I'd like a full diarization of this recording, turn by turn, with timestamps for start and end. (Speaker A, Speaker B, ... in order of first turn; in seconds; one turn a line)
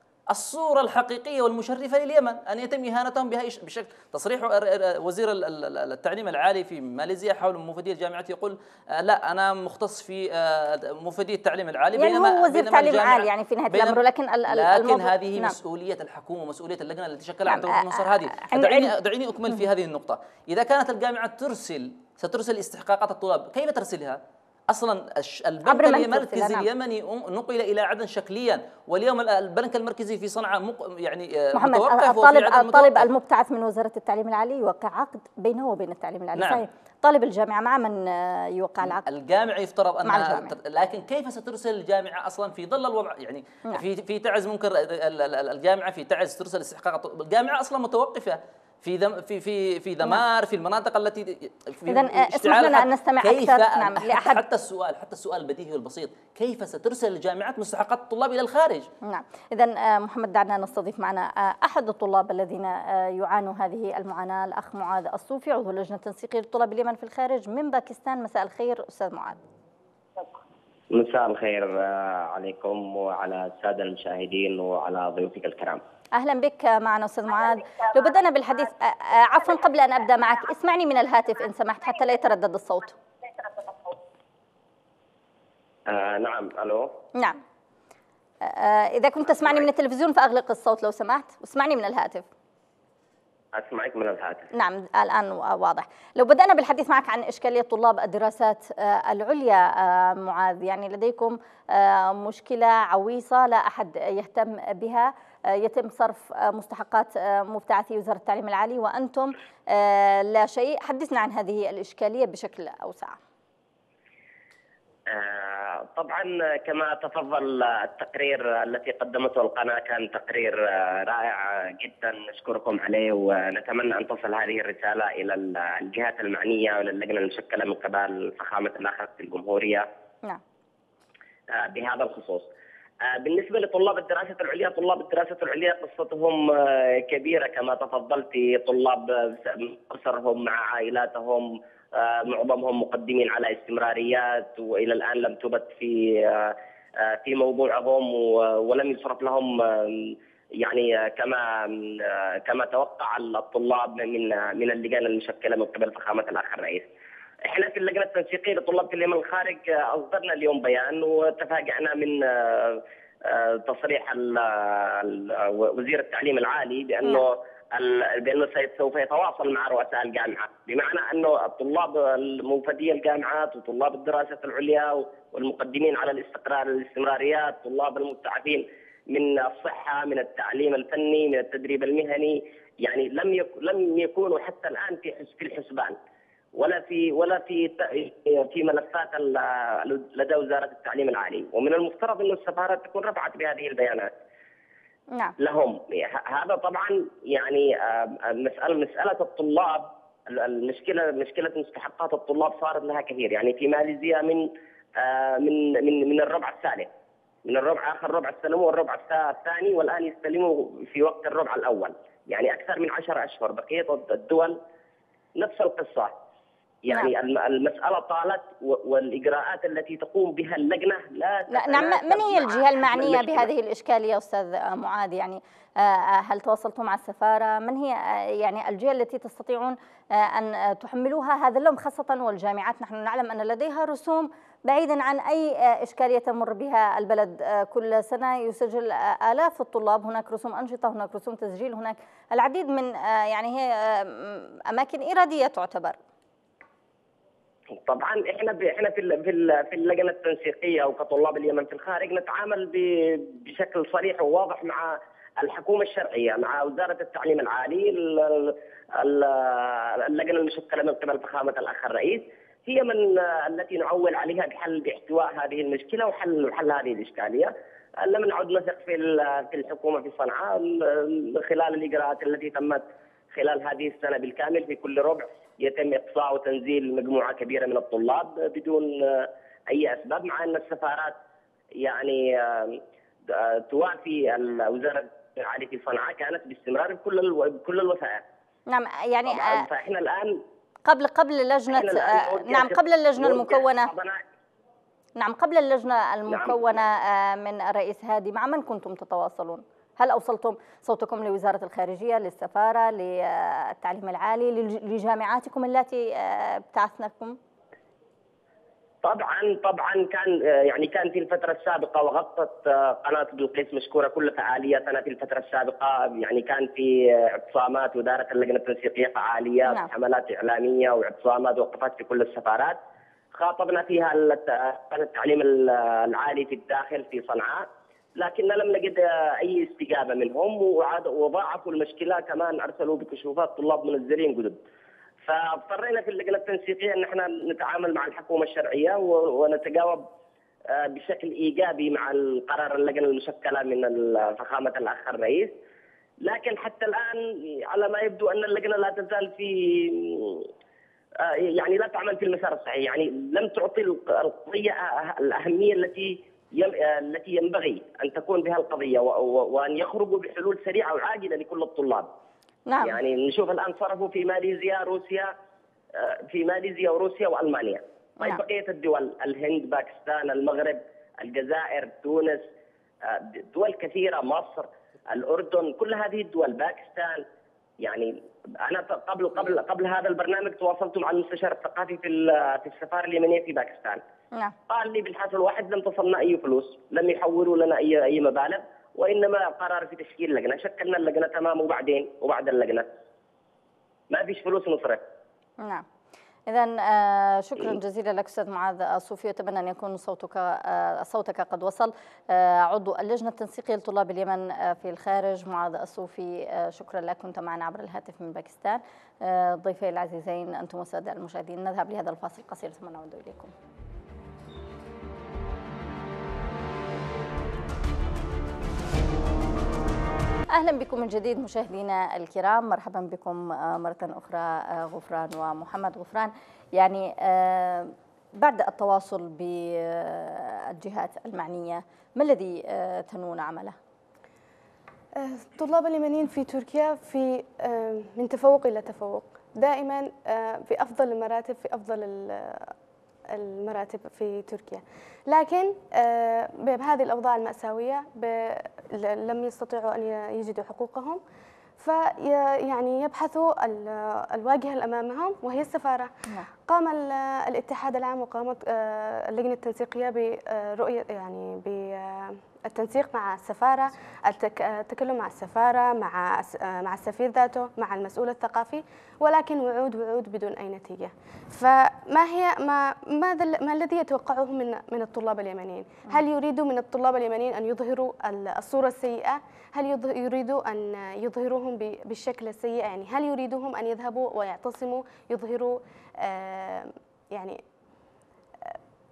Speaker A: 0.3-33.1
Speaker B: 12.0-15.5
Speaker B: 17.5-18.9
Speaker B: 25.6-26.7
Speaker B: 31.5-39.0
Speaker A: 38.9-58.9
Speaker B: 40.0-40.5
Speaker B: 51.9-54.4
Speaker B: 59.0-69.4
Speaker C: 70.9-75.8
Speaker B: 76.1-83.0
Speaker C: 85.9-86.9
Speaker B: 88.4-92.2
Speaker C: 93.5-94.5
Speaker B: 94.5-113.2
Speaker C: 115.1-129.9
Speaker C: 131.5-132.5
Speaker C: 133.0-156.8
Speaker C: 157.4-186.0
Speaker C: 186.5-194.1
Speaker C: 195.4-206.9
Speaker C: 207.4-214.6
Speaker C: 215.4-216.1
Speaker C: 216.8-223.5
Speaker B: 221.5-246.0
Speaker C: 247.7-281.2
Speaker C: 281.8-288.2
Speaker B: 288.7-289.6
Speaker C: 289.2-290.4
Speaker B: 290.9-293.9
Speaker C: 291.7-294.2
Speaker B: 295.2-307.4
Speaker C: 296.3-296.6
Speaker C: 309.0-322.8
Speaker C: 323.4-334.6
Speaker C: 335.2-340.0
Speaker C: 340.7-345.5
Speaker C: 346.2-350.5
Speaker C: 351.2-362.1
Speaker B: 362.7-362.9
Speaker C: 362.8-365.3
Speaker C: 365.9-372.5
Speaker C: 373.0-377.2
Speaker C: 377.8-384.0
Speaker C: 384.7-392.9
Speaker C: 394.1-395.0
Speaker B: 396.5-413.5
Speaker B: 420.5-433.7
Speaker D: 435.1-442.7
Speaker D: 443.3-451.2
Speaker D: 451.8-456.1
Speaker D: 456.6-487.6